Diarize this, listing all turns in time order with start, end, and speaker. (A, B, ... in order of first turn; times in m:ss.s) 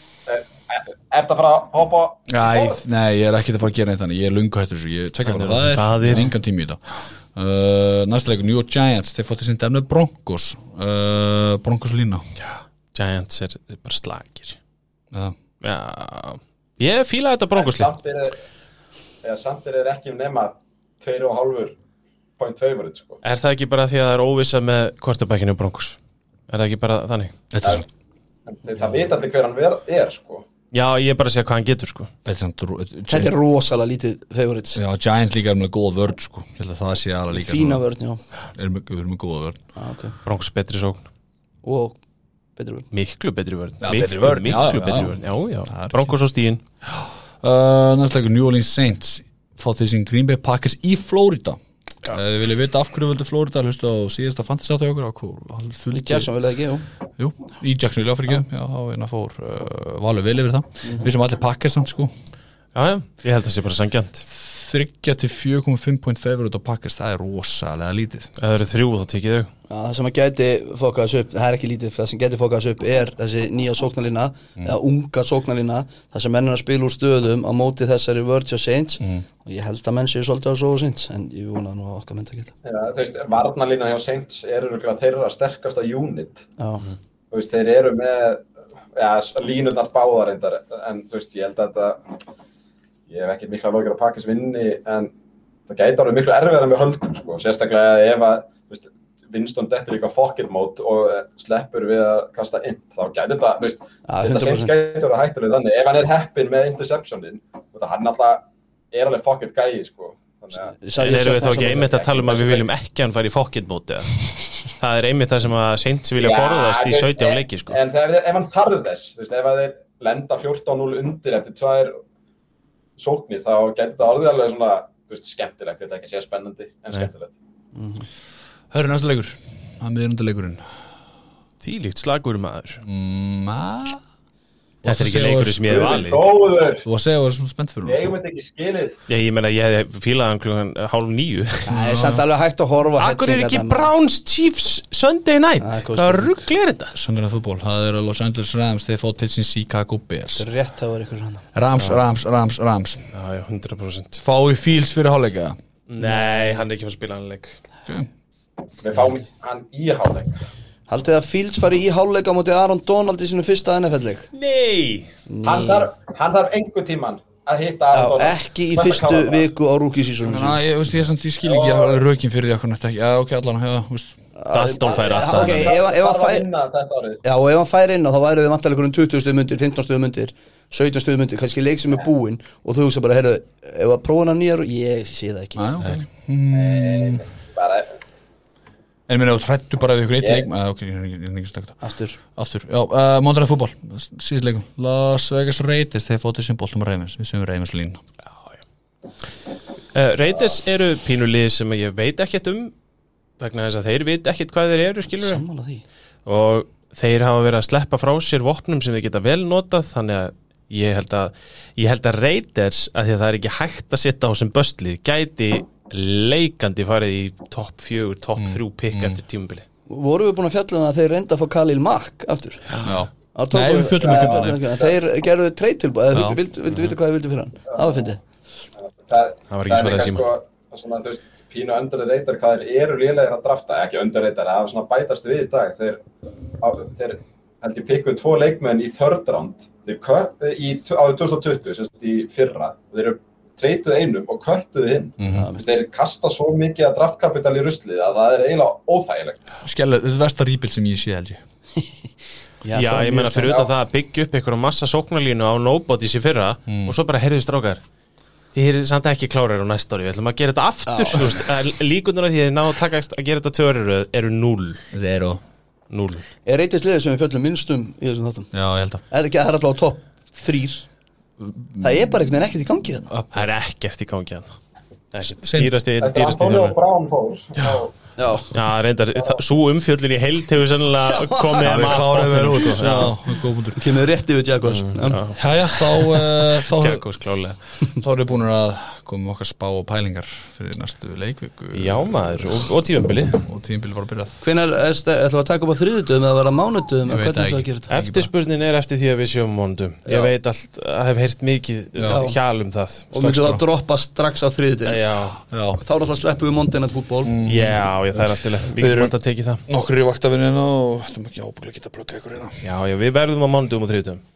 0:00.3-0:02.8 A
0:02.3-0:06.8 B
0:05.2-0:06.3 C
0:07.3-0:12.2 B
0:12.4-0:14.6 C
0:15.6-0:17.9 C
0:17.6-0:18.4 A
0:19.2-0:21.7 A
0:22.4-0:23.2 A
0:23.2-0:26.0 C
0:26.5-0:27.3 C
0:27.5-0:27.8 B
0:28.5-0:30.4 A
0:30.7-0:32.1 C
0:32.2-0:33.3 B
0:33.1-0:34.8 D
0:34.7-0:37.8 B
0:37.3-0:38.2 D
0:38.5-0:39.6 B
0:39.8-0:40.2 D
0:40.2-0:41.1 C
0:41.6-0:42.0 D
0:42.6-0:42.9 D
0:42.9-0:46.6 C
0:43.8-0:46.1 B
0:47.0-0:56.3 B
0:55.9-0:56.8 D
0:57.2-1:02.1 B
1:02.7-1:04.2 C
1:04.3-1:08.3 B
1:08.4-1:09.5 C
1:09.7-1:22.5 D
1:22.6-1:26.4 A
1:26.6-1:26.8 D
1:27.3-1:32.1 A
1:33.1-1:35.1 A
1:35.7-1:52.7 A
1:44.1-1:44.8 D
1:50.8-1:51.9 D
1:51.0-1:57.8 C
1:56.2-2:02.0 A
2:03.0-2:07.3 A
2:07.7-2:08.0 D
2:08.7-2:10.6 B
2:11.6-2:12.8 C
2:12.8-2:14.0 B
2:14.8-2:15.6 B
2:14.8-2:16.2 C
2:15.6-2:16.8 A
2:16.8-2:18.1 B
2:17.8-2:19.0 A
2:19.1-2:21.7 C
2:21.7-2:23.9 D
2:21.7-2:22.2 B
2:23.0-2:26.9 C
2:25.6-2:26.5 D
2:26.9-2:30.5 B
2:30.4-2:31.4 D
2:31.5-2:33.1 B
2:31.8-2:32.0 C
2:33.1-2:34.2 C
2:34.2-2:35.6 B
2:35.9-2:37.6 C
2:36.0-2:36.6 D
2:38.8-2:40.4 A
2:40.9-2:44.3 D
2:44.3-2:45.1 C
2:45.3-2:45.9 D
2:45.4-2:49.5 A
2:47.9-2:50.6 D
2:50.2-2:54.2 B
2:51.4-2:52.0 A
2:54.4-2:56.5 D
2:54.5-2:55.8 C
2:54.8-2:57.2 A
2:57.2-3:05.6 D
3:05.6-3:07.2 B
3:06.5-3:07.9 A
3:09.1-3:11.8 B
3:10.2-3:10.4 A
3:11.8-3:12.2 D
3:12.3-3:18.0 B
3:18.3-3:18.6 C
3:19.9-3:22.7 C
3:23.4-3:25.4 C
3:25.2-3:25.8 D
3:26.2-3:39.6 C
3:38.4-3:39.2 B
3:39.9-3:42.6 D
3:42.7-3:43.0 C
3:42.8-3:44.7 B
3:43.3-3:48.2 D
3:44.0-3:44.9 A
3:46.1-3:46.4 B
3:49.0-3:56.0 A
3:49.5-3:50.3 C
3:56.6-4:09.5 A
4:05.2-4:05.5 B
4:05.3-4:05.8 D
4:09.6-4:11.4 B
4:12.6-4:13.7 D
4:12.7-4:17.8 C
4:16.7-4:17.0 B
4:18.5-4:24.9 C
4:20.9-4:21.2 D
4:24.9-4:25.4 B
4:25.9-4:26.2 C
4:26.4-4:28.5 D
4:28.5-4:29.0 B
4:29.1-4:30.8 D
4:31.4-4:31.9 B
4:31.8-4:33.1 D
4:33.1-4:33.4 B
4:33.3-4:34.6 C
4:35.1-4:36.8 C
4:35.4-4:35.7 B
4:36.0-4:37.9 A
4:38.2-4:38.5 D
4:38.5-4:43.2 C
4:41.2-4:41.8 D
4:41.6-4:43.9 B
4:43.8-4:45.2 D
4:44.6-4:47.6 C
4:45.3-4:47.0 B
4:48.0-4:52.6 B
4:51.7-4:53.4 C
4:53.4-4:54.4 B
4:54.4-4:57.9 D
4:57.0-4:58.3 B
4:57.9-5:03.1 C
5:02.0-5:02.2 B
5:02.1-5:02.4 D
5:03.1-5:05.0 D
5:03.1-5:03.6 B
5:04.8-5:05.4 C
5:05.5-5:05.8 B
5:05.8-5:07.3 D
5:07.2-5:09.1 B
5:07.4-5:09.6 C
5:09.6-5:12.6 B
5:12.6-5:14.2 C